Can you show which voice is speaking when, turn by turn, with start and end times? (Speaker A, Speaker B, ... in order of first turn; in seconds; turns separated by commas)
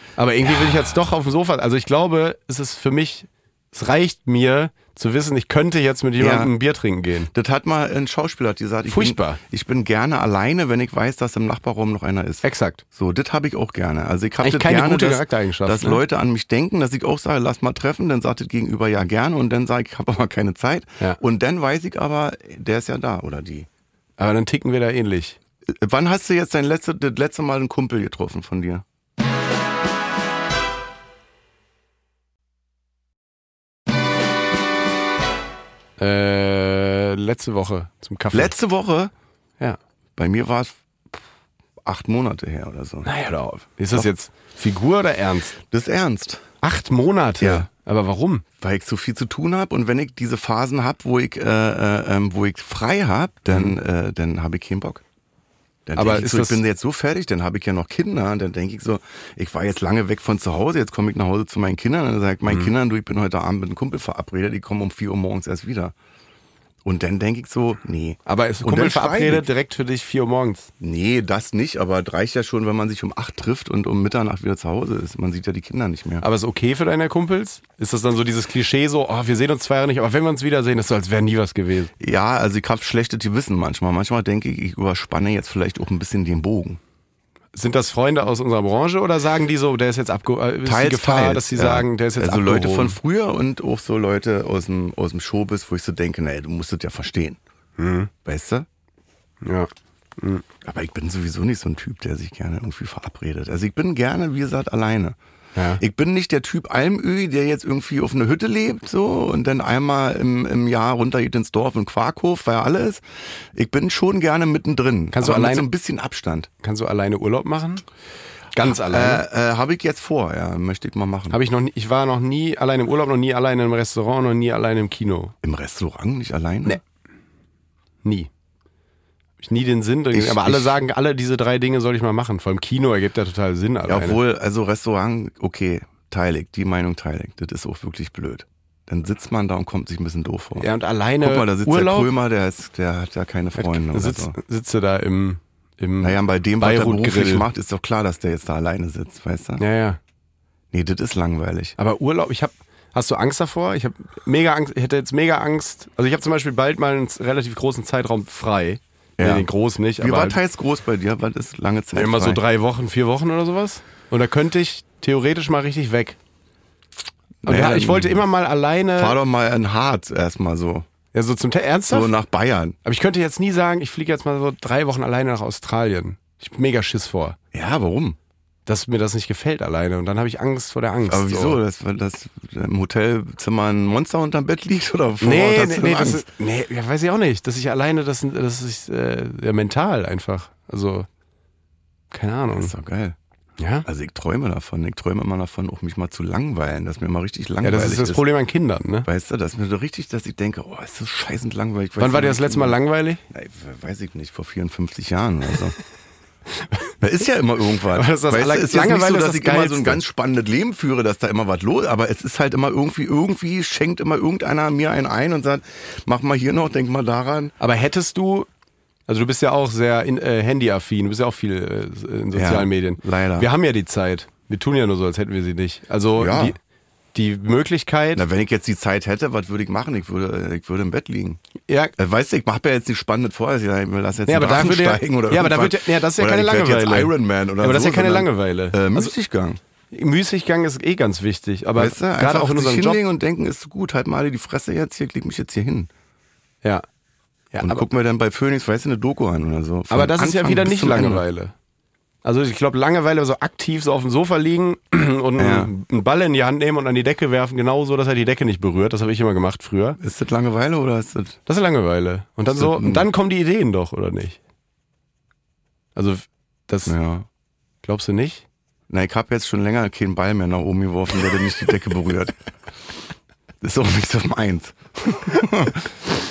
Speaker A: 0.2-7.3, Speaker B: 6.2-6.5, Speaker B: 7.3-23.7, Speaker A: 8.9-9.4, Speaker A: 12.4-12.8, Speaker A: 14.4-16.0, Speaker A: 24.2-25.4, Speaker B: 25.7-28.8, Speaker A: 36.0-38.5, Speaker B: 38.3-39.1, Speaker B: 40.2-41.2, Speaker B: 41.8-43.1, Speaker A: 43.0-45.6, Speaker B: 45.6-46.5, Speaker A: 46.6-48.5, Speaker B: 47.4-47.7, Speaker B: 48.6-55.0, Speaker A: 53.5-53.8, Speaker B: 55.9-65.9, Speaker A: 56.0-56.6, Speaker A: 62.5-62.7, Speaker B: 66.8-69.5, Speaker A: 68.3-70.7, Speaker B: 70.8-76.2, Speaker A: 76.2-81.9, Speaker B: 82.0-86.8, Speaker A: 87.5-93.0, Speaker B: 90.7-97.4, Speaker A: 97.8-98.1, Speaker B: 98.2-98.7, Speaker A: 99.4-100.5, Speaker B: 100.6-105.2, Speaker A: 105.6-105.8, Speaker B: 105.8-113.0, Speaker B: 113.5-116.5, Speaker A: 115.1-115.7, Speaker A: 116.6-117.8, Speaker A: 118.5-119.2, Speaker B: 118.6-121.4, Speaker A: 121.3-125.3, Speaker B: 125.4-126.8, Speaker A: 128.0-128.3, Speaker A: 129.4-134.2, Speaker B: 130.1-130.8, Speaker B: 133.9-140.7, Speaker A: 140.6-142.1, Speaker B: 141.2-144.4, Speaker A: 143.6-147.5, Speaker B: 146.0-149.6, Speaker A: 149.6-150.0, Speaker B: 150.7-151.8, Speaker A: 151.8-160.4, Speaker B: 159.2-159.5, Speaker B: 160.0-162.4, Speaker A: 161.9-166.2, Speaker B: 167.4-168.2, Speaker A: 167.4-169.2, Speaker B: 169.0-170.9, Speaker A: 171.1-172.1, Speaker B: 171.9-172.8, Speaker A: 172.8-177.4, Speaker B: 177.5-178.2, Speaker A: 178.7-181.6, Speaker B: 181.1-186.3, Speaker A: 185.2-191.1, Speaker A: 192.1-192.7, Speaker B: 192.5-193.2, Speaker A: 193.6-193.9, Speaker B: 193.8-198.2, Speaker A: 197.6-199.1, Speaker B: 199.1-202.8, Speaker A: 202.0-203.2, Speaker B: 203.3-205.8, Speaker B: 207.0-217.5, Speaker A: 207.9-210.0, Speaker A: 217.6-218.5, Speaker A: 219.1-226.6, Speaker B: 222.3-223.5, Speaker B: 226.2-226.6, Speaker A: 227.1-228.2, Speaker B: 228.2-231.4, Speaker A: 231.7-231.9, Speaker B: 232.0-239.6, Speaker A: 234.3-239.1, Speaker A: 239.9-243.0, Speaker B: 241.8-245.9, Speaker A: 247.5-247.8, Speaker B: 247.6-251.2, Speaker A: 249.9-251.5, Speaker A: 252.2-260.0, Speaker B: 255.4-255.7, Speaker B: 260.0-261.4, Speaker A: 261.5-264.4, Speaker B: 262.5-263.1, Speaker A: 265.9-266.9, Speaker B: 266.9-267.3, Speaker A: 267.8-268.4, Speaker B: 268.9-272.4, Speaker B: 273.6-276.0